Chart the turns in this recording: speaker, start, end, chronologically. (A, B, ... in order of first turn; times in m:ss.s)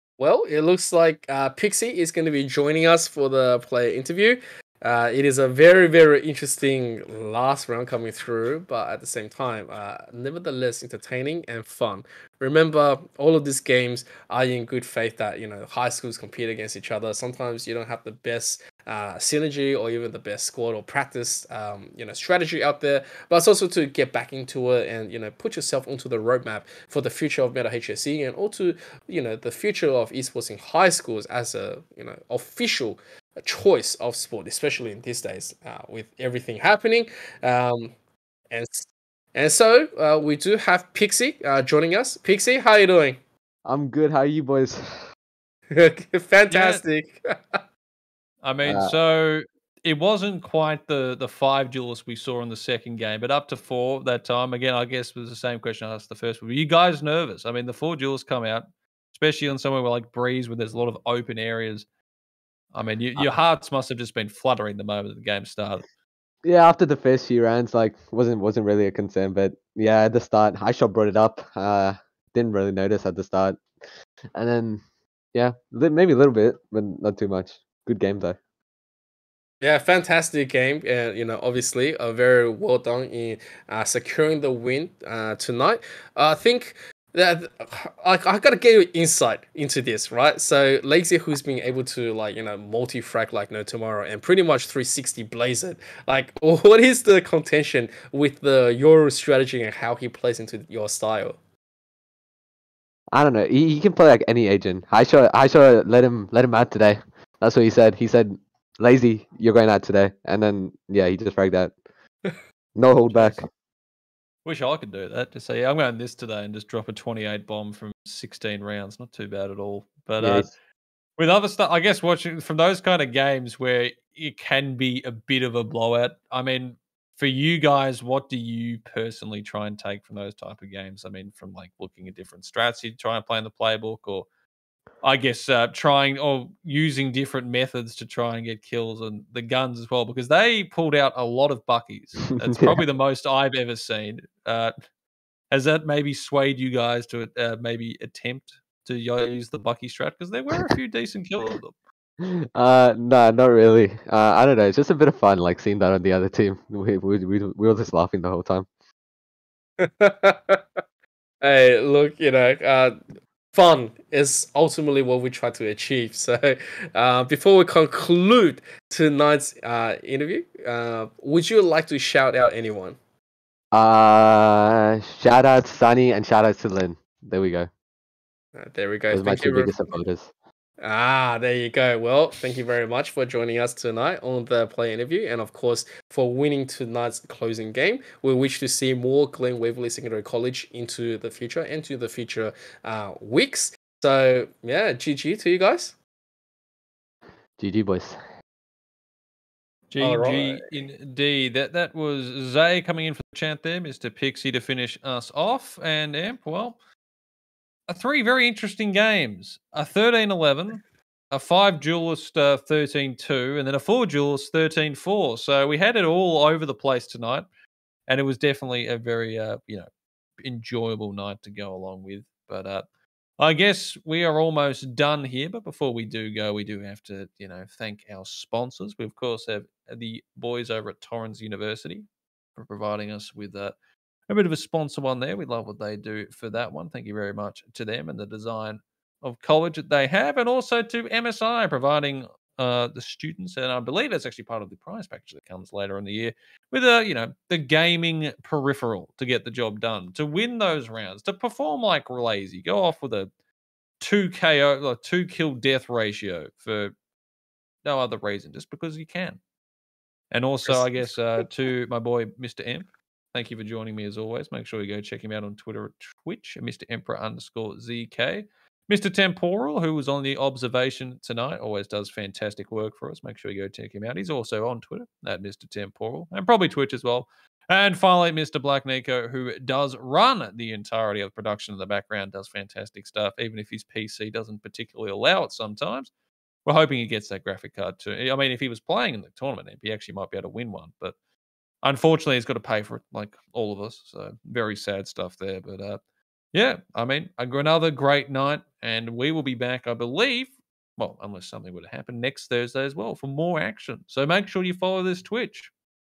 0:00.2-0:37.9 A
0:38.5-0:43.2 A
0:43.6-0:44.8 B
0:45.7-0:47.6 A
0:46.5-0:46.8 C
0:48.4-1:01.9 C
0:48.6-0:49.0 B
1:02.7-1:05.8 C
1:06.4-1:13.6 B
1:14.4-1:14.8 B
1:15.3-1:18.4 B
1:19.6-1:41.4 A
1:43.1-1:51.7 B
1:52.8-1:53.5 B
1:53.1-1:53.4 C
1:54.4-2:00.5 C
2:00.2-2:00.5 B
2:01.2-2:14.3 C
2:15.0-2:24.7 C
2:22.3-2:22.8 B
2:25.5-2:31.8 C
2:32.2-2:38.7 B
2:39.8-2:40.6 A
2:41.4-2:43.0 A
2:43.5-2:53.0 A
2:53.7-2:57.7 B
2:58.6-2:59.9 A
2:59.1-3:00.3 B
3:00.8-3:16.0 A
3:17.6-3:18.2 B
3:19.9-3:26.8 C
3:20.0-3:20.7 A
3:27.9-3:37.5 C
3:38.1-3:39.9 C
3:40.4-3:42.9 C
3:43.4-3:53.8 C
3:54.3-4:13.3 C
4:14.0-4:16.9 C
4:17.8-4:19.4 C
4:20.3-4:46.1 C
4:20.6-4:21.5 A
4:46.6-4:51.2 C
4:51.8-4:56.0 C
4:56.5-5:05.7 C